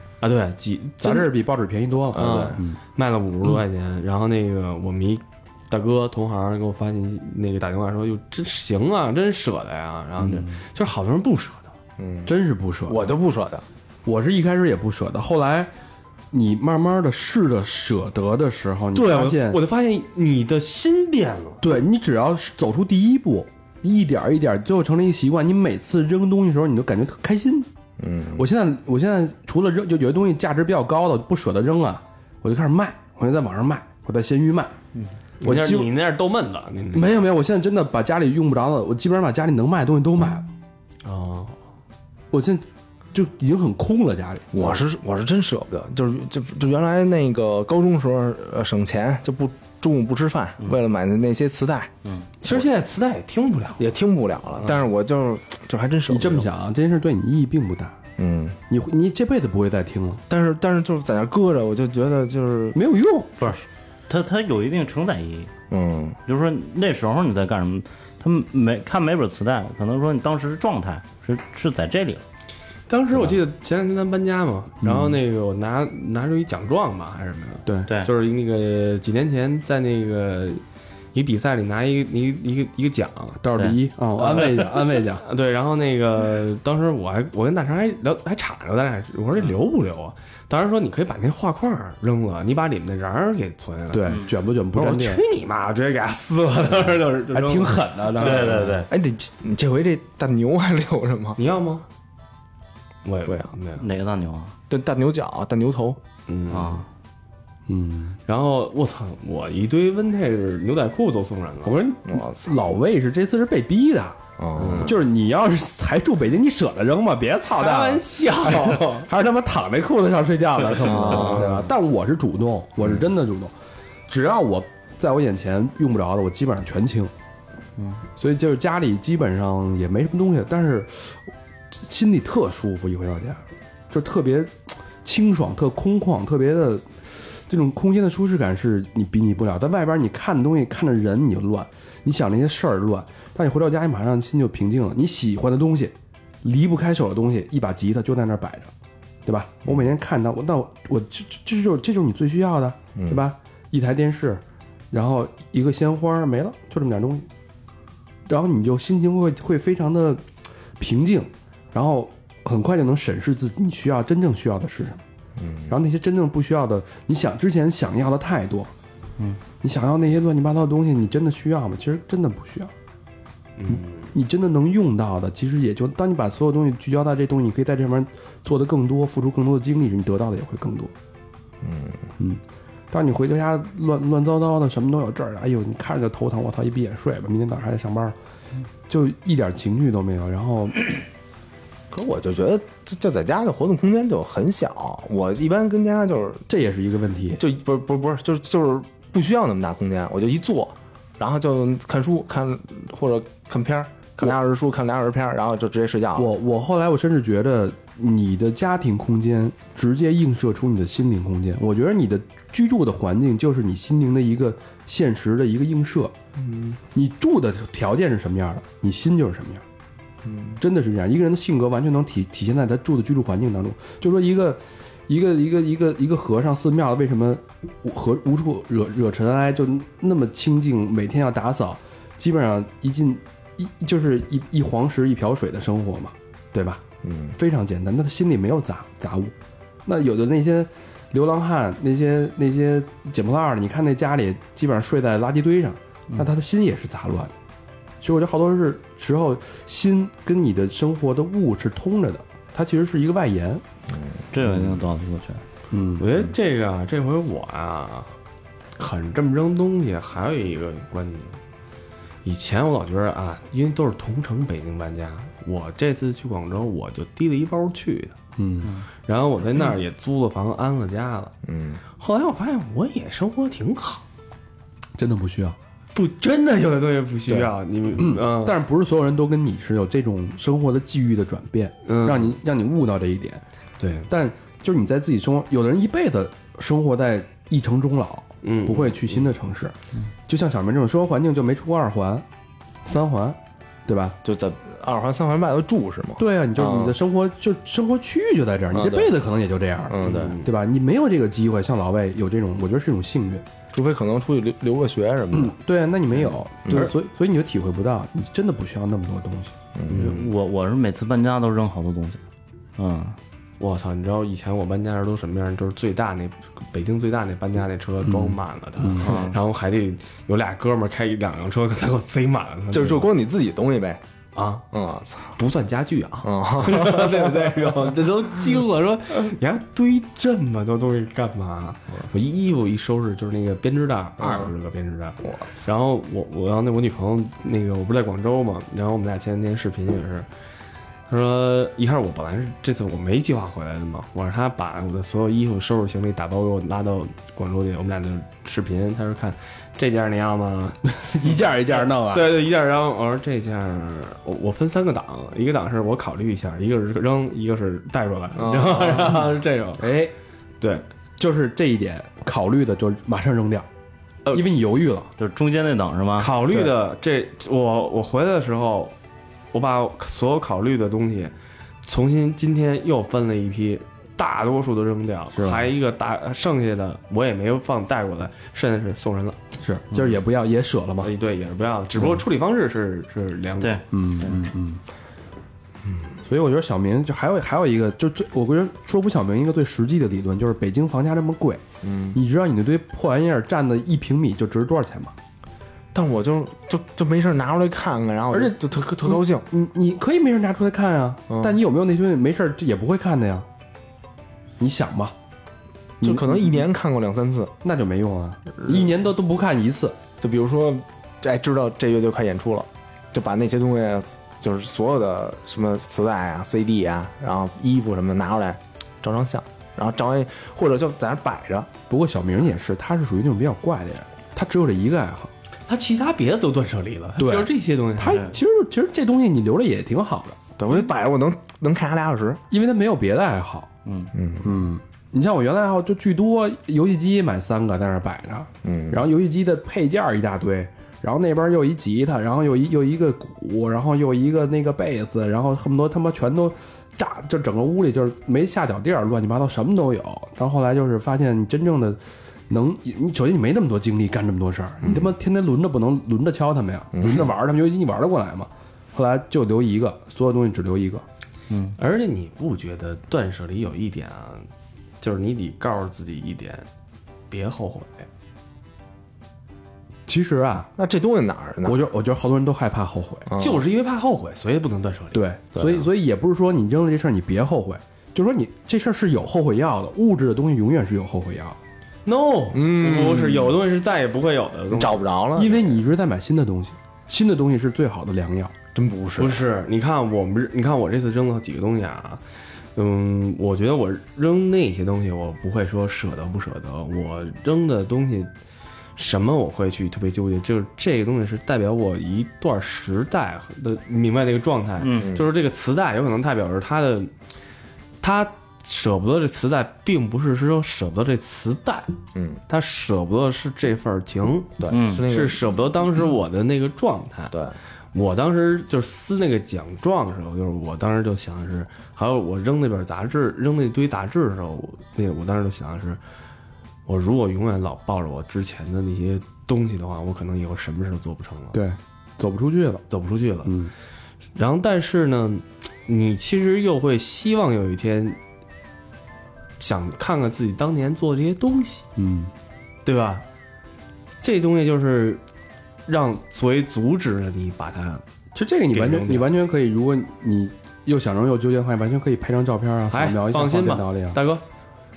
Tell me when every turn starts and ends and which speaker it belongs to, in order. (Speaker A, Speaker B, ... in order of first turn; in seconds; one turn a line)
Speaker A: 0.2-1.4
Speaker B: 1.0-2.8
Speaker C: 2.1-2.6
Speaker A: 2.1-11.7
Speaker B: 10.2-10.6
Speaker C: 12.0-12.3
Speaker B: 12.3-13.1
Speaker C: 12.9-13.6
Speaker B: 14.1-15.7
Speaker B: 16.3-19.6
Speaker A: 18.9-21.8
Speaker B: 21.6-27.7
Speaker C: 28.0-28.5
Speaker B: 28.4-34.8
Speaker A: 35.4-37.2
Speaker B: 35.4-35.9
Speaker B: 36.9-40.5
Speaker A: 41.0-41.6
Speaker B: 42.3-44.8
Speaker C: 44.5-51.9
Speaker A: 52.4-53.8
Speaker C: 53.8-56.5
Speaker B: 56.1-58.0
Speaker C: 58.2-58.6
Speaker B: 58.7-60.2
Speaker C: 60.3-62.8
Speaker B: 62.7-63.6
Speaker D: 63.4-65.5
Speaker C: 65.7-66.2
Speaker D: 66.3-72.2
Speaker A: 72.9-80.6
Speaker B: 74.8-75.2
Speaker A: 81.1-83.4
Speaker B: 83.4-85.2
Speaker A: 84.2-98.8
Speaker B: 93.9-95.2
Speaker B: 97.3-98.8
Speaker D: 98.2-98.9
Speaker C: 98.9-101.4
Speaker A: 101.4-101.8
Speaker A: 103.0-103.8
Speaker D: 103.8-104.5
Speaker C: 104.7-106.0
Speaker A: 106.3-106.8
Speaker D: 106.5-106.8
Speaker B: 107.7-108.2
Speaker A: 108.3-111.8
Speaker B: 111.7-114.2
Speaker C: 112.1-112.8
Speaker C: 114.4-114.9
Speaker A: 114.6-115.0
Speaker B: 114.8-123.5
Speaker A: 117.5-119.1
Speaker C: 120.8-121.6
Speaker A: 120.9-121.7
Speaker B: 124.1-127.1
Speaker B: 128.2-131.2
Speaker B: 131.8-148.7
Speaker B: 149.2-157.3
Speaker C: 153.0-153.2
Speaker B: 158.3-160.2
Speaker B: 160.8-165.0
Speaker C: 165.4-165.8
Speaker B: 165.7-168.7
Speaker B: 169.6-172.7
Speaker A: 173.6-174.1
Speaker B: 173.7-180.9
Speaker C: 181.6-182.1
Speaker B: 182.2-188.2
Speaker B: 188.9-191.0
Speaker C: 191.9-196.5
Speaker B: 196.5-197.4
Speaker C: 197.4-206.3
Speaker B: 206.2-216.1
Speaker A: 216.4-216.8
Speaker B: 216.9-219.6
Speaker C: 220.2-220.6
Speaker B: 220.6-236.8
Speaker C: 237.0-237.3
Speaker B: 237.3-247.3
Speaker B: 248.0-253.6
Speaker C: 253.9-254.2
Speaker D: 254.3-255.4
Speaker B: 255.7-256.1
Speaker A: 256.0-258.1
Speaker A: 258.8-261.4
Speaker A: 262.2-268.2
Speaker B: 268.4-268.7
Speaker A: 269.0-271.3
Speaker C: 271.4-271.8
Speaker A: 272.0-274.0
Speaker B: 275.0-275.6
Speaker A: 275.9-278.6
Speaker B: 278.0-283.4
Speaker A: 281.9-282.4
Speaker A: 283.8-284.1
Speaker B: 284.1-289.8
Speaker A: 288.4-289.2
Speaker B: 290.3-292.2
Speaker B: 292.9-294.2
Speaker C: 294.2-297.0
Speaker B: 296.2-303.4
Speaker C: 298.7-299.1
Speaker C: 299.9-300.4
Speaker A: 300.0-300.5
Speaker C: 303.7-305.5
Speaker B: 305.3-309.6
Speaker C: 306.1-306.9
Speaker C: 309.8-310.2
Speaker A: 309.9-310.3
Speaker D: 309.9-312.2
Speaker D: 312.8-313.2
Speaker A: 313.6-323.1
Speaker B: 318.1-319.1
Speaker D: 319.0-319.4
Speaker C: 322.7-324.0
Speaker A: 324.4-324.6
Speaker C: 324.7-325.4
Speaker A: 325.4-340.3
Speaker C: 326.2-327.6
Speaker C: 334.2-334.5
Speaker C: 335.2-335.5
Speaker A: 341.1-351.4
Speaker B: 351.0-352.4
Speaker A: 351.9-359.9
Speaker C: 358.4-359.3
Speaker B: 359.8-360.1
Speaker B: 361.2-363.7
Speaker B: 364.3-365.1
Speaker D: 365.2-366.3
Speaker A: 366.2-368.9
Speaker A: 369.5-371.3
Speaker A: 371.8-379.4
Speaker B: 375.3-375.7
Speaker B: 379.6-381.1
Speaker A: 381.0-383.8
Speaker D: 383.6-384.5
Speaker B: 383.9-384.8
Speaker B: 386.2-391.6
Speaker C: 391.8-392.2
Speaker B: 392.1-395.1
Speaker C: 395.9-399.4
Speaker B: 398.3-403.5
Speaker C: 401.3-401.6
Speaker B: 404.6-405.1
Speaker B: 406.0-406.6
Speaker C: 406.0-407.5
Speaker B: 407.6-410.0
Speaker C: 410.2-421.7
Speaker B: 421.9-425.3
Speaker A: 425.7-428.3
Speaker B: 427.2-430.4
Speaker C: 430.6-432.4
Speaker B: 432.5-433.7
Speaker D: 433.9-434.1
Speaker C: 434.1-434.5
Speaker B: 434.4-461.1
Speaker C: 438.6-439.0
Speaker C: 454.8-455.1
Speaker C: 456.9-457.3
Speaker D: 461.5-461.8
Speaker A: 461.8-464.5
Speaker A: 465.0-466.7
Speaker A: 467.3-468.1
Speaker B: 470.1-470.7
Speaker C: 470.8-471.8
Speaker B: 471.6-473.3
Speaker C: 473.3-473.6
Speaker A: 473.4-475.3
Speaker B: 475.1-481.6
Speaker C: 475.5-475.9
Speaker A: 482.1-485.0
Speaker C: 482.5-483.6
Speaker C: 484.7-485.8
Speaker B: 485.4-488.5
Speaker C: 488.7-489.4
Speaker A: 489.2-492.2
Speaker A: 492.8-498.3
Speaker A: 499.0-507.1
Speaker D: 504.8-505.1
Speaker C: 505.0-505.3
Speaker A: 508.0-512.0
Speaker C: 512.1-512.4
Speaker A: 512.5-517.4
Speaker C: 514.6-515.5
Speaker D: 514.7-515.1
Speaker C: 517.3-517.6
Speaker A: 517.9-526.0
Speaker A: 526.9-531.6
Speaker B: 531.5-532.8
Speaker A: 532.9-533.5
Speaker B: 533.5-533.7
Speaker A: 534.4-538.2
Speaker A: 539.6-541.9
Speaker B: 542.0-542.3
Speaker A: 542.9-543.2
Speaker A: 544.2-545.2
Speaker A: 545.9-548.0
Speaker B: 548.3-554.2
Speaker A: 548.7-549.3
Speaker A: 552.9-554.4